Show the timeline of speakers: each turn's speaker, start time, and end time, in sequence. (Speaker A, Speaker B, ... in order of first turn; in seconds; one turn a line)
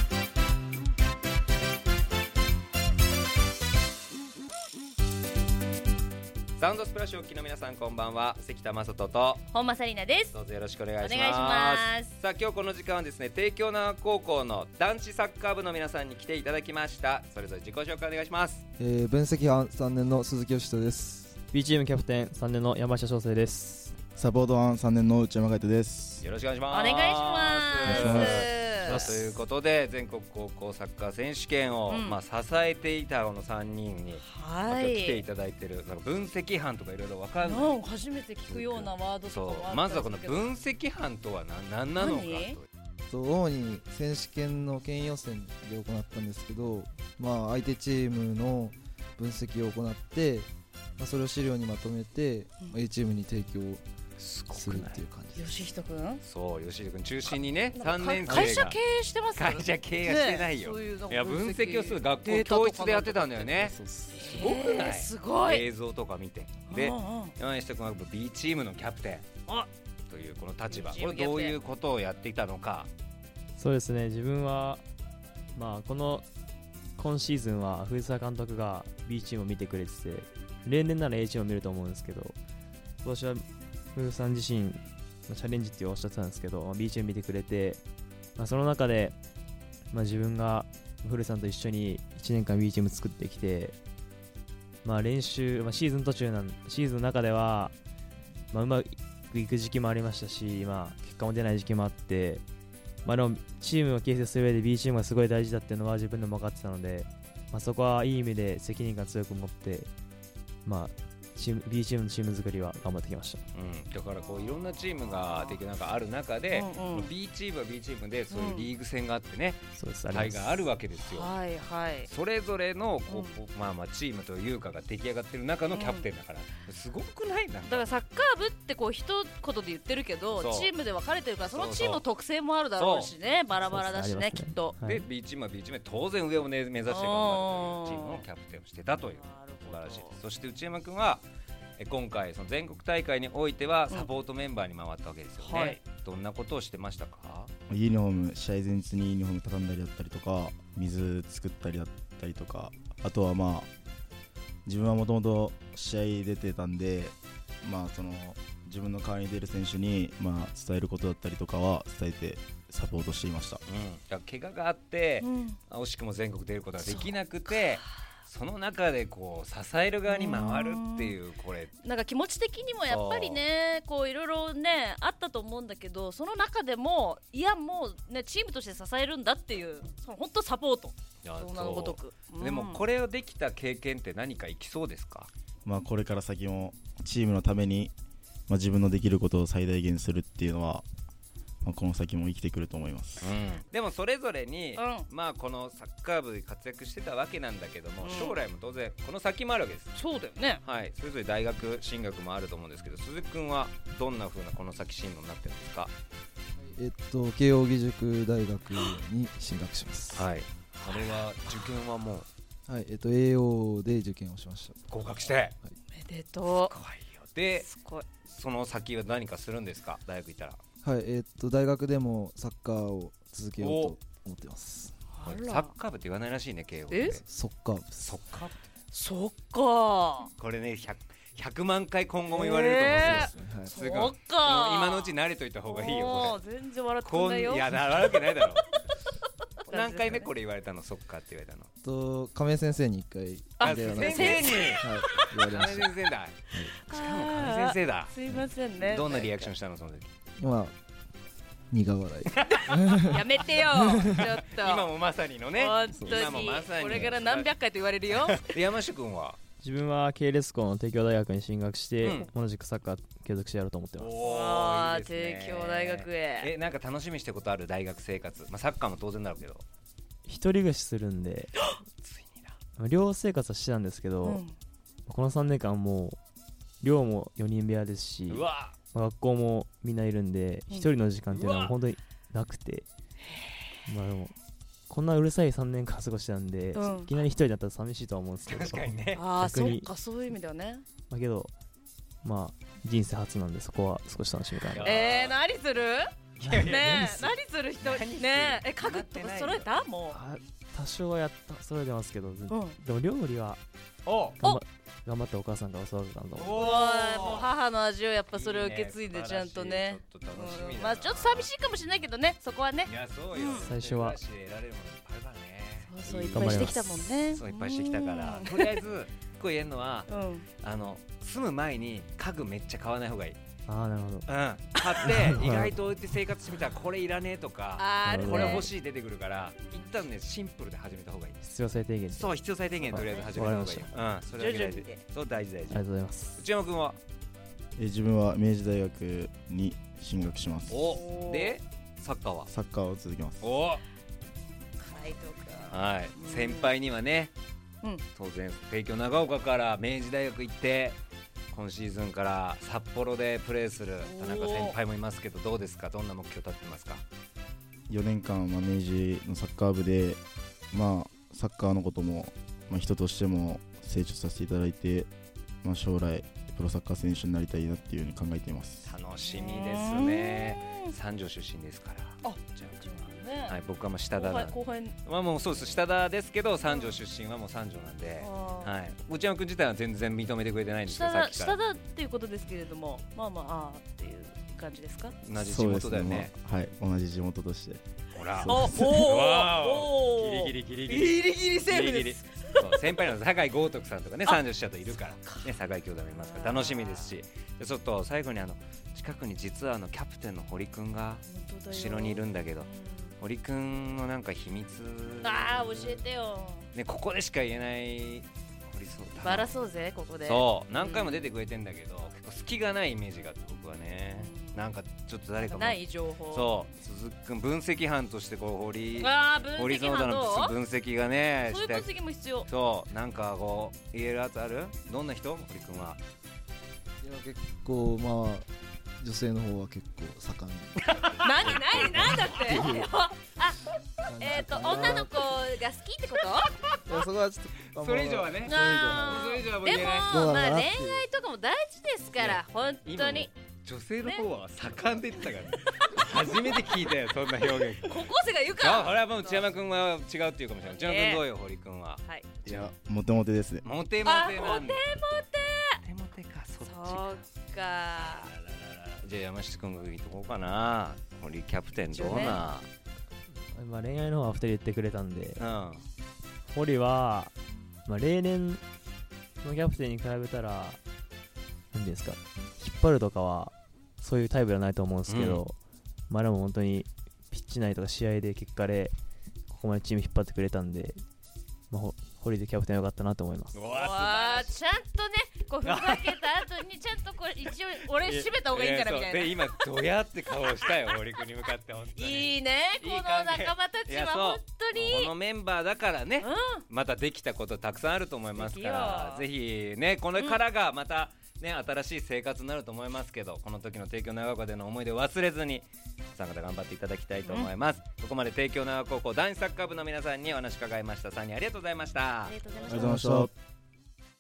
Speaker A: 6.6-9.5
Speaker B: 9.5-10.3
Speaker A: 10.3-18.6
Speaker B: 11.0-12.1
Speaker C: 18.8-21.4
Speaker D: 21.5-24.0
Speaker E: 24.1-26.3
Speaker A: 26.2-37.8
Speaker B: 26.7-29.2
Speaker E: 27.8-28.5
Speaker D: 28.8-29.4
Speaker B: 31.9-32.2
Speaker B: 34.2-35.2
Speaker B: 37.4-40.5
Speaker A: 38.5-42.7
Speaker B: 42.0-42.5
Speaker C: 43.1-53.8
Speaker A: 54.2-55.0
Speaker C: 54.5-55.7
Speaker B: 55.3-56.2
Speaker A: 56.2-58.8
Speaker B: 57.7-65.6
Speaker A: 59.3-69.3
Speaker D: 63.7-64.2
Speaker B: 66.7-67.3
Speaker A: 70.1-72.9
Speaker B: 70.7-71.6
Speaker D: 73.5-74.8
Speaker D: 75.5-76.2
Speaker D: 77.0-82.4
Speaker D: 83.0-83.4
Speaker D: 83.9-87.8
Speaker D: 88.3-89.2
Speaker D: 89.9-93.8
Speaker D: 94.8-97.7
Speaker D: 98.5-102.4
Speaker D: 103.0-109.9
Speaker D: 110.6-113.4
Speaker A: 113.5-121.3
Speaker B: 114.5-115.3
Speaker B: 116.5-117.1
Speaker B: 118.3-118.7
Speaker D: 119.7-120.6
Speaker B: 121.0-122.1
Speaker A: 122.1-127.9
Speaker B: 123.1-123.3
Speaker B: 125.7-126.0
Speaker B: 127.7-134.8
Speaker A: 130.3-130.7
Speaker A: 131.5-132.0
Speaker A: 132.8-133.1
Speaker D: 133.6-135.0
Speaker A: 134.8-141.2
Speaker B: 136.9-138.2
Speaker B: 139.0-140.2
Speaker A: 141.8-147.5
Speaker B: 145.4-145.8
Speaker E: 147.7-153.7
Speaker E: 154.7-163.6
Speaker A: 163.7-171.8
Speaker B: 165.2-165.6
Speaker B: 166.8-167.7
Speaker B: 170.1-171.2
Speaker B: 171.8-182.8
Speaker A: 172.9-173.4
Speaker A: 181.2-185.3
Speaker E: 185.6-187.9
Speaker E: 188.5-190.8
Speaker E: 191.6-193.3
Speaker A: 193.2-200.0
Speaker B: 194.8-195.1
Speaker B: 198.0-198.4
Speaker B: 199.9-200.6
Speaker A: 200.6-205.9
Speaker C: 206.7-210.3
Speaker A: 210.1-212.3
Speaker C: 212.7-214.8
Speaker A: 214.9-215.6
Speaker B: 215.9-216.7
Speaker A: 216.5-217.7
Speaker B: 217.5-218.1
Speaker A: 218.2-220.6
Speaker C: 220.8-225.0
Speaker A: 223.6-223.9
Speaker B: 225.1-225.7
Speaker A: 225.2-227.2
Speaker B: 226.9-227.2
Speaker C: 227.2-228.2
Speaker A: 228.0-228.7
Speaker B: 228.9-230.3
Speaker A: 230.4-236.4
Speaker B: 232.3-235.1
Speaker C: 232.9-233.8
Speaker B: 235.7-238.8
Speaker A: 237.0-238.6
Speaker B: 239.7-240.3
Speaker A: 239.7-241.7
Speaker C: 241.8-246.0
Speaker B: 243.6-244.9
Speaker A: 243.6-248.1
Speaker B: 246.9-249.4
Speaker A: 248.8-250.1
Speaker C: 250.4-250.7
Speaker C: 251.7-254.3
Speaker A: 252.3-253.0
Speaker B: 253.0-254.9
Speaker A: 254.5-257.5
Speaker B: 255.5-258.5
Speaker C: 255.9-256.3
Speaker A: 258.1-259.4
Speaker D: 259.6-264.1
Speaker A: 262.0-262.3
Speaker A: 264.0-269.6
Speaker B: 264.2-266.5
Speaker D: 270.2-271.5
Speaker A: 272.0-272.5
Speaker D: 272.8-274.4
Speaker B: 274.2-274.6
Speaker D: 275.1-276.2
Speaker D: 276.8-282.9
Speaker A: 278.3-278.8
Speaker A: 281.3-281.8
Speaker D: 283.9-284.3
Speaker D: 284.9-289.9
Speaker B: 286.8-287.1
Speaker A: 288.5-289.2
Speaker B: 289.2-290.9
Speaker D: 291.0-291.5
Speaker D: 292.2-294.9
Speaker A: 294.7-295.4
Speaker B: 294.8-300.2
Speaker A: 296.4-297.2
Speaker D: 296.4-297.3
Speaker A: 297.8-299.7
Speaker D: 300.1-303.6
Speaker B: 302.5-302.8
Speaker A: 304.1-304.4
Speaker D: 304.4-306.6
Speaker A: 306.4-307.5
Speaker B: 306.5-313.7
Speaker A: 308.3-311.5
Speaker A: 312.9-323.4
Speaker D: 313.5-314.2
Speaker B: 315.9-318.8
Speaker D: 316.1-317.1
Speaker B: 320.1-320.5
Speaker D: 323.7-324.3
Speaker A: 324.2-331.4
Speaker D: 325.0-325.8
Speaker B: 327.8-328.7
Speaker D: 328.0-328.7
Speaker D: 331.4-333.9
Speaker A: 332.1-337.0
Speaker B: 332.9-333.3
Speaker B: 334.4-335.0
Speaker D: 335.7-336.4
Speaker E: 337.8-340.9
Speaker A: 340.7-342.5
Speaker B: 340.9-341.6
Speaker E: 342.5-343.4
Speaker A: 343.4-343.8
Speaker B: 344.8-346.7
Speaker A: 345.7-347.3
Speaker A: 348.1-351.0
Speaker A: 351.5-357.0
Speaker B: 354.0-354.8
Speaker E: 357.9-365.1
Speaker E: 365.6-368.9
Speaker A: 368.9-381.7
Speaker B: 369.2-370.9
Speaker B: 372.2-373.6
Speaker B: 374.1-374.9
Speaker B: 376.7-376.9
Speaker B: 378.2-378.7
Speaker B: 380.9-385.1
Speaker A: 385.2-386.3
Speaker E: 385.4-387.8
Speaker A: 388.1-402.7
Speaker E: 388.4-388.8
Speaker B: 388.5-392.8
Speaker B: 395.2-395.4
Speaker B: 396.2-397.1
Speaker B: 401.3-403.1
Speaker A: 403.2-406.0
Speaker B: 405.2-406.7
Speaker A: 406.7-409.5
Speaker B: 409.2-411.2
Speaker A: 410.2-415.8
Speaker B: 414.2-414.7
Speaker B: 415.4-416.5
Speaker A: 416.3-421.9
Speaker B: 419.0-420.6
Speaker B: 421.5-422.5
Speaker A: 422.5-426.0
Speaker C: 427.0-428.5
Speaker C: 429.0-432.9
Speaker A: 431.0-431.4
Speaker B: 431.1-436.5
Speaker C: 434.1-435.2
Speaker C: 436.9-439.4
Speaker A: 437.8-440.2
Speaker B: 438.4-443.3
Speaker C: 440.1-441.1
Speaker A: 442.2-452.7
Speaker B: 447.8-449.5
Speaker B: 450.7-451.2
Speaker E: 452.4-453.7
Speaker A: 453.6-454.8
Speaker B: 454.0-455.8
Speaker A: 455.8-457.2
Speaker B: 456.6-458.3
Speaker A: 458.0-462.7
Speaker B: 461.9-462.4
Speaker D: 463.5-465.5
Speaker A: 465.4-465.9
Speaker D: 466.5-467.3
Speaker D: 467.9-468.6
Speaker D: 469.4-470.8
Speaker D: 471.7-475.6
Speaker A: 475.1-475.4
Speaker D: 476.1-478.9
Speaker D: 479.5-481.0
Speaker D: 481.7-483.6
Speaker A: 483.5-484.5
Speaker B: 483.7-489.6
Speaker A: 485.6-486.4
Speaker A: 488.0-512.4
Speaker B: 490.5-491.0
Speaker B: 491.9-495.1
Speaker B: 496.2-496.6
Speaker B: 498.4-499.2
Speaker B: 512.2-513.0
Speaker E: 512.6-513.3
Speaker C: 512.7-513.3